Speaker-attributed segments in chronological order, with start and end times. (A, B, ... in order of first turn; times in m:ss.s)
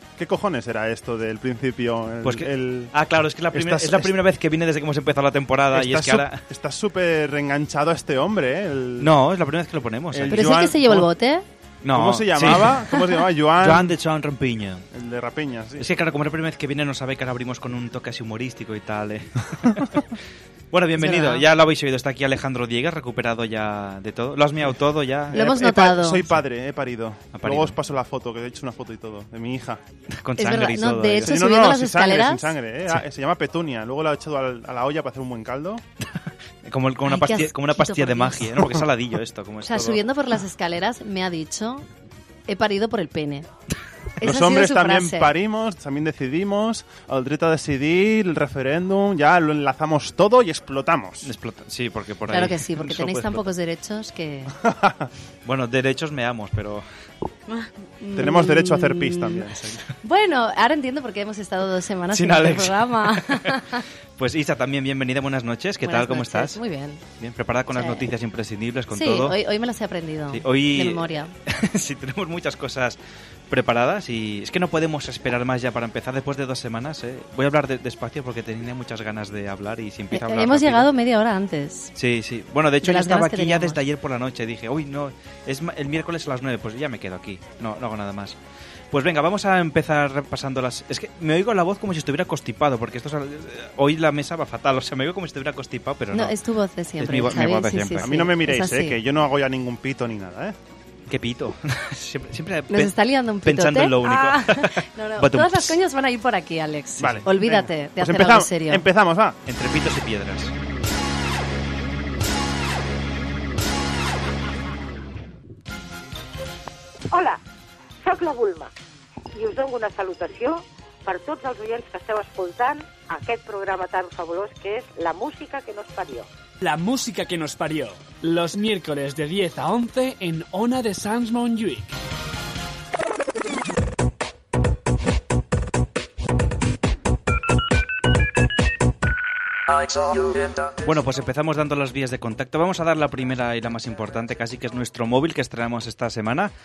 0:00.2-0:02.9 A
0:02.2-0:06.4 B
0:03.5-0:04.1 A
0:05.7-0:09.1 A
0:09.0-0:10.5 B
0:10.1-0:11.1 A
0:10.3-0:11.4 C
0:11.8-0:12.8 B
0:11.9-0:13.9 A
0:13.6-0:14.8 B
0:14.9-0:15.9 A
0:15.8-0:20.1 B
0:20.7-0:25.5 B
0:21.0-0:21.4 C
0:25.3-0:29.8 A
0:25.3-0:26.2 C
0:27.3-0:27.8 B
0:30.1-0:31.4 B
0:30.4-0:32.5 C
0:31.2-0:35.8 A
0:36.6-0:40.0 B
0:37.1-0:38.7 C
0:39.6-0:41.9 C
0:42.5-0:43.5 C
0:44.2-0:45.3 C
0:44.2-0:51.3 A
0:51.2-0:53.4 B
0:52.3-0:54.5 C
0:54.6-0:55.1 A
0:55.4-0:56.8 B
0:57.5-0:59.4 C
0:58.1-0:59.8 A
1:00.0-1:03.8 C
1:02.1-1:03.5 B
1:04.2-1:06.6 B
1:05.8-1:07.0 C
1:07.2-1:09.4 B
1:07.8-1:08.0 C
1:08.9-1:11.3 C
1:10.3-1:13.0 B
1:13.5-1:20.9 B
1:20.1-1:21.9 C
1:22.0-1:28.4 B
1:22.8-1:23.8 C
1:28.9-1:36.4 B
1:36.1-1:39.0 C
1:37.0-1:38.1 B
1:38.0-1:40.6 A
1:41.1-1:45.8 B
1:42.7-1:48.8 C
1:47.0-1:49.4 A
1:49.5-1:50.5 B
1:57.1-1:57.4 D
1:58.0-1:58.7 D
1:59.3-2:06.3 D
2:06.6-2:11.9 E
2:20.8-2:26.5 B